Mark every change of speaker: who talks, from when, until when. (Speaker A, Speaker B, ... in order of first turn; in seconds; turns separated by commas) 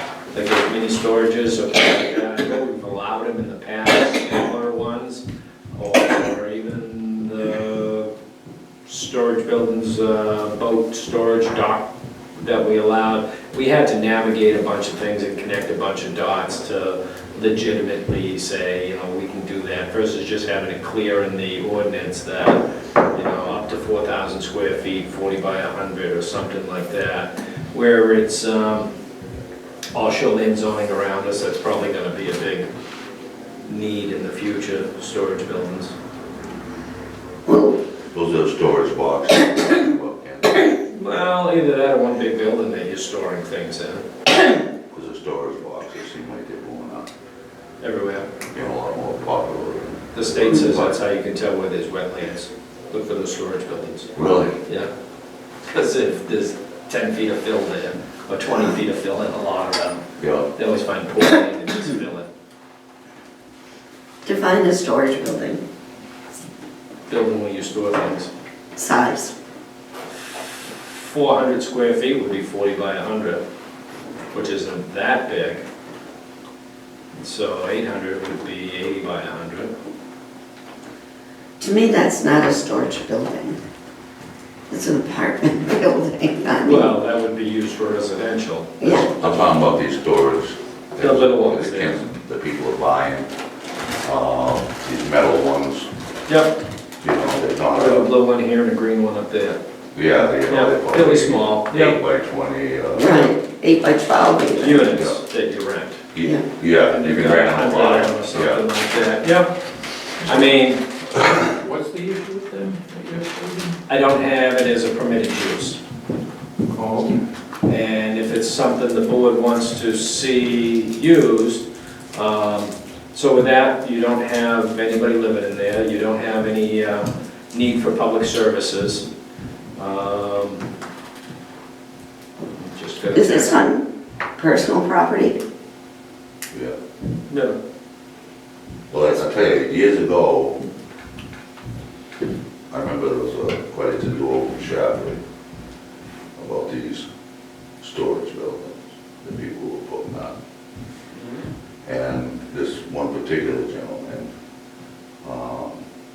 Speaker A: 0.3-5.2, Speaker A: 5.7-8.1, Speaker A: 8.8-11.8, Speaker A: 12.3-22.6, Speaker A: 23.1-28.9, Speaker A: 29.9-32.6, Speaker A: 33.7-35.9, Speaker B: 37.5-37.8, Speaker C: 38.1-40.7, Speaker A: 40.9-44.0, Speaker C: 44.9-47.1, Speaker A: 47.8-48.2, Speaker C: 48.5-51.0, Speaker A: 50.1-54.1, Speaker C: 54.1-54.6, Speaker A: 54.6-54.9, Speaker A: 55.7-60.0, Speaker C: 60.2-60.5, Speaker A: 60.5-62.3, Speaker B: 64.2-65.6, Speaker A: 67.1-68.3, Speaker B: 68.8-69.3, Speaker A: 70.8-73.4, Speaker A: 74.3-75.6, Speaker A: 77.1-79.7, Speaker B: 81.6-83.6, Speaker B: 84.7-86.9, Speaker A: 86.6-89.3, Speaker B: 88.8-89.1, Speaker C: 88.8-93.3, Speaker A: 91.0-91.9, Speaker C: 94.0-95.9, Speaker A: 96.3-96.5, Speaker C: 97.0-98.1, Speaker A: 97.7-99.6, Speaker C: 99.9-103.3, Speaker A: 100.5-102.0, Speaker B: 102.9-104.9, Speaker A: 104.6-106.0, Speaker C: 104.8-105.2, Speaker C: 106.1-108.6, Speaker A: 106.9-109.5, Speaker A: 110.2-110.8, Speaker D: 111.4-113.8, Speaker A: 113.9-115.8, Speaker D: 116.7-117.2, Speaker A: 117.7-129.1, Speaker A: 129.8-130.6, Speaker A: 132.6-133.6, Speaker B: 133.1-133.8, Speaker B: 134.3-135.4, Speaker A: 137.3-137.6, Speaker C: 138.9-140.6, Speaker C: 142.7-145.2, Speaker C: 146.3-147.1, Speaker C: 147.8-150.3, Speaker C: 151.8-154.3, Speaker C: 155.2-155.8